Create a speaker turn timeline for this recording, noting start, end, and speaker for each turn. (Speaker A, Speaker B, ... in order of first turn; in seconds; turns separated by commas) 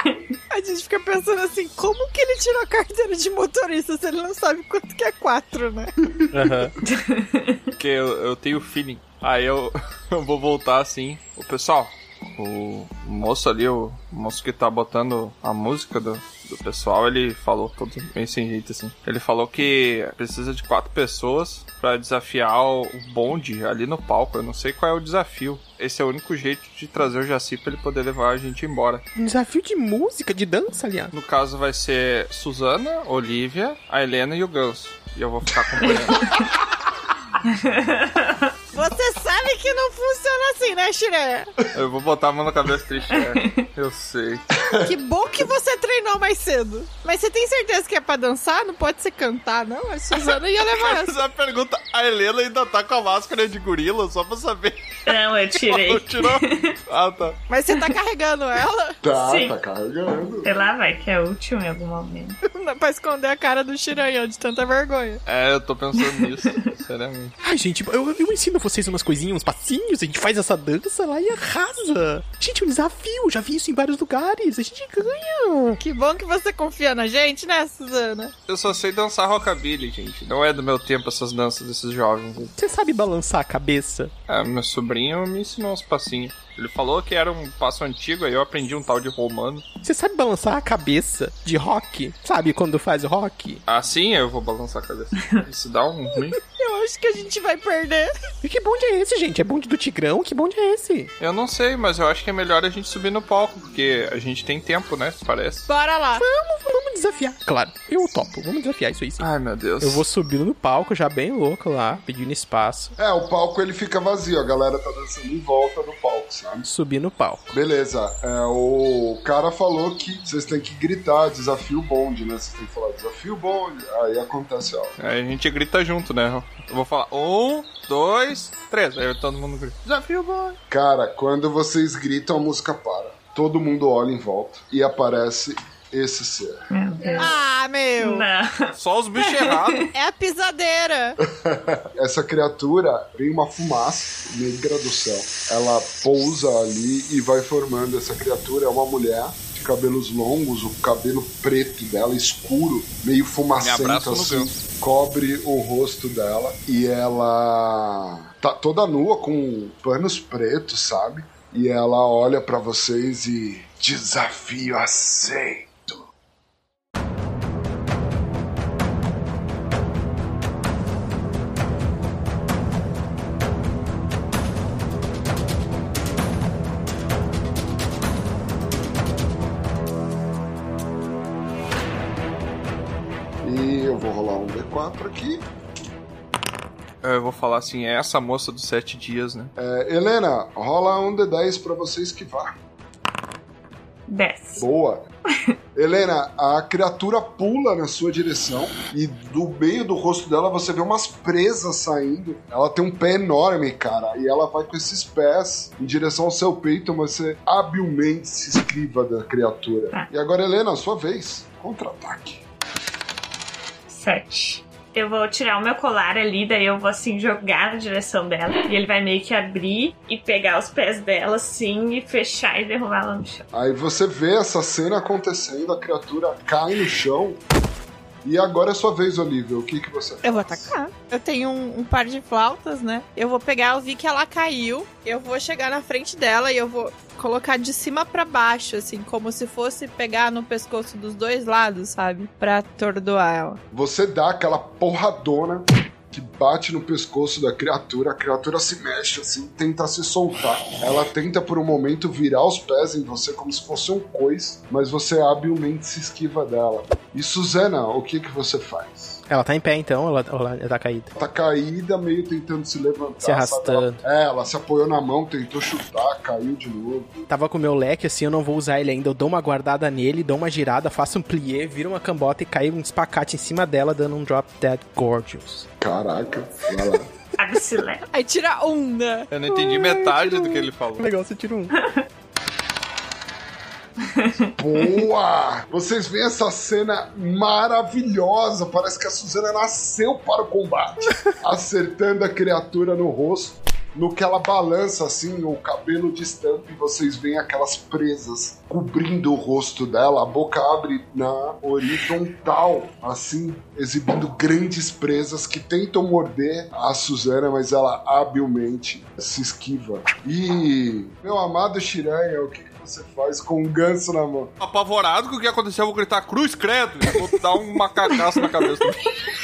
Speaker A: 0.5-5.9, Speaker B: 6.3-6.7, Speaker C: 6.8-7.6, Speaker D: 7.8-29.0, Speaker B: 29.1-31.1, Speaker D: 31.1-36.4, Speaker C: 37.4-38.5, Speaker A: 38.7-41.5, Speaker D: 41.7-44.4, Speaker C: 43.1-43.5, Speaker E: 44.7-45.0, Speaker A: 44.8-51.1, Speaker D: 50.1-57.4, Speaker C: 55.1-56.7, Speaker A: 57.5-59.0, Speaker E: 59.0-60.5, Speaker C: 59.1-59.5, Speaker C: 60.4-62.4, Speaker A: 62.4-65.2, Speaker D: 65.2-67.3, Speaker B: 67.4-75.8, Speaker A: 75.8-78.3, Speaker D: 78.5-82.5, Speaker B: 82.6-84.1, Speaker D: 84.3-89.6, Speaker B: 89.8-93.6, Speaker D: 93.7-96.4, Speaker A: 96.3-98.1, Speaker B: 98.4-101.1, Speaker D: 101.2-105.7, Speaker A: 105.7-106.2, Speaker B: 106.2-109.2, Speaker D: 109.2-110.0, Speaker B: 109.8-112.9, Speaker E: 113.0-116.7, Speaker B: 116.6-117.5, Speaker E: 117.5-124.9, Speaker D: 125.0-130.6, Speaker E: 130.7-136.6, Speaker C: 136.7-137.4, Speaker A: 137.2-138.3, Speaker C: 138.0-139.9, Speaker D: 138.7-139.9, Speaker A: 139.9-141.2, Speaker E: 141.2-166.1, Speaker D: 153.6-154.5, Speaker E: 183.4-185.5, Speaker D: 187.0-189.5, Speaker E: 189.6-192.6, Speaker C: 194.1-194.7, Speaker E: 194.6-195.1, Speaker E: 195.7-212.4, Speaker C: 213.9-223.5, Speaker E: 223.5-227.4, Speaker E: 228.2-230.7, Speaker A: 230.2-243.6, Speaker E: 243.7-259.2, Speaker B: 259.3-261.1, Speaker E: 261.1-267.2, Speaker B: 263.2-264.0, Speaker B: 267.3-275.7, Speaker E: 275.8-277.1, Speaker C: 277.4-278.1, Speaker A: 278.1-279.3, Speaker D: 279.3-281.1, Speaker B: 279.5-281.8, Speaker C: 284.0-284.4, Speaker E: 284.5-314.5, Speaker D: 314.6-319.0